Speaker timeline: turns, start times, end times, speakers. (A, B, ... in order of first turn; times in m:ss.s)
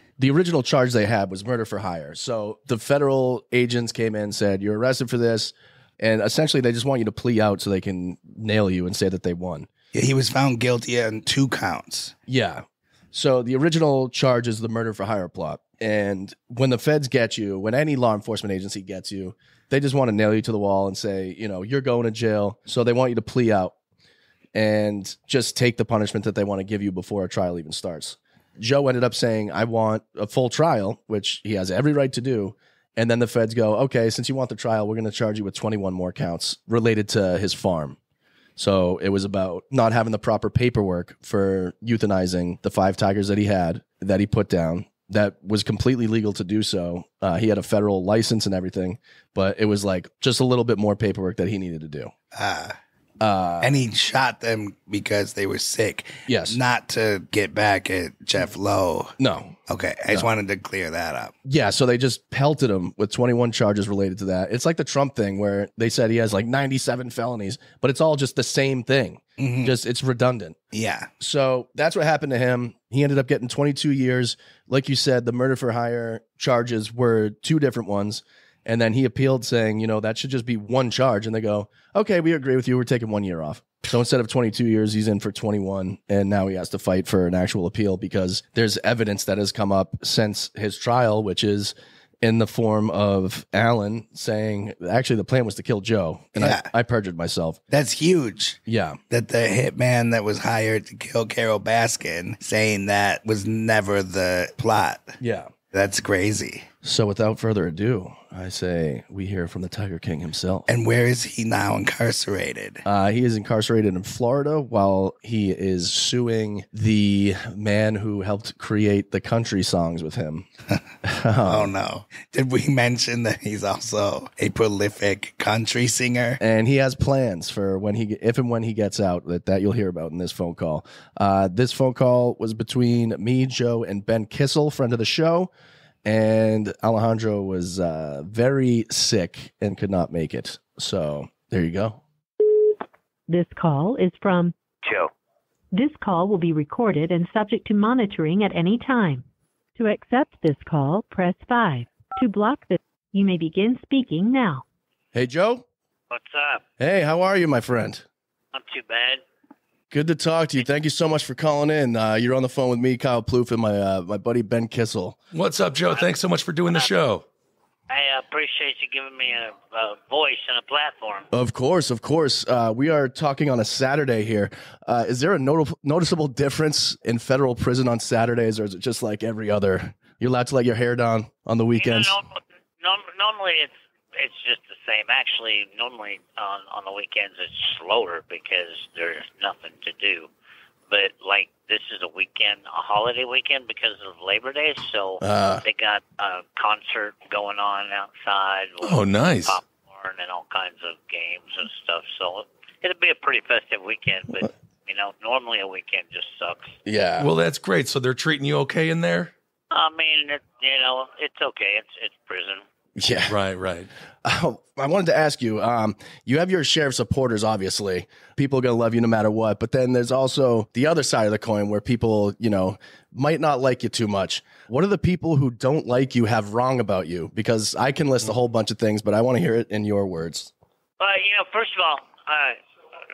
0:00.2-0:09.7 A
0:09.9-0:12.1 B
0:12.3-0:23.7 A
0:24.5-0:38.0 A
0:38.6-0:52.1 A
0:52.3-0:52.7 B
0:53.2-0:53.8 A
0:53.6-0:59.1 B
0:56.2-0:56.6 A
0:59.2-0:59.6 A
0:59.7-1:01.3 B
1:01.4-1:10.6 A
1:09.4-1:09.7 B
1:10.7-1:11.1 B
1:11.2-1:37.6 A
1:36.4-1:36.7 B
1:37.7-1:38.6 B
1:38.7-1:39.0 A
1:39.1-1:45.2 B
1:45.2-1:45.5 A
1:45.7-1:46.7 B
1:46.8-1:50.7 A
1:50.7-1:52.8 B
1:52.8-2:00.5 A
2:01.0-2:01.7 A
2:01.4-2:06.4 B
2:06.4-2:15.5 A
2:16.0-2:22.0 A
2:23.3-2:24.5 C
2:24.8-2:25.1 D
2:25.7-2:29.2 C
2:29.8-2:34.6 C
2:35.1-2:35.6 A
2:36.1-2:36.6 D
2:36.8-2:38.0 A
2:38.5-2:39.2 D
2:39.9-2:45.2 A
2:45.3-2:47.2 E
2:47.9-2:51.3 D
2:51.3-3:02.2 A
3:01.8-3:10.3 D
3:10.9-3:26.7 D
3:15.2-3:15.6 A
3:18.8-3:19.6 E
3:26.8-3:27.3 A
3:27.2-3:29.3 E
3:29.7-3:32.6 D
3:33.0-3:33.3 A
3:33.3-3:33.9 E
3:34.2-3:50.5 A
3:51.0-3:52.6 D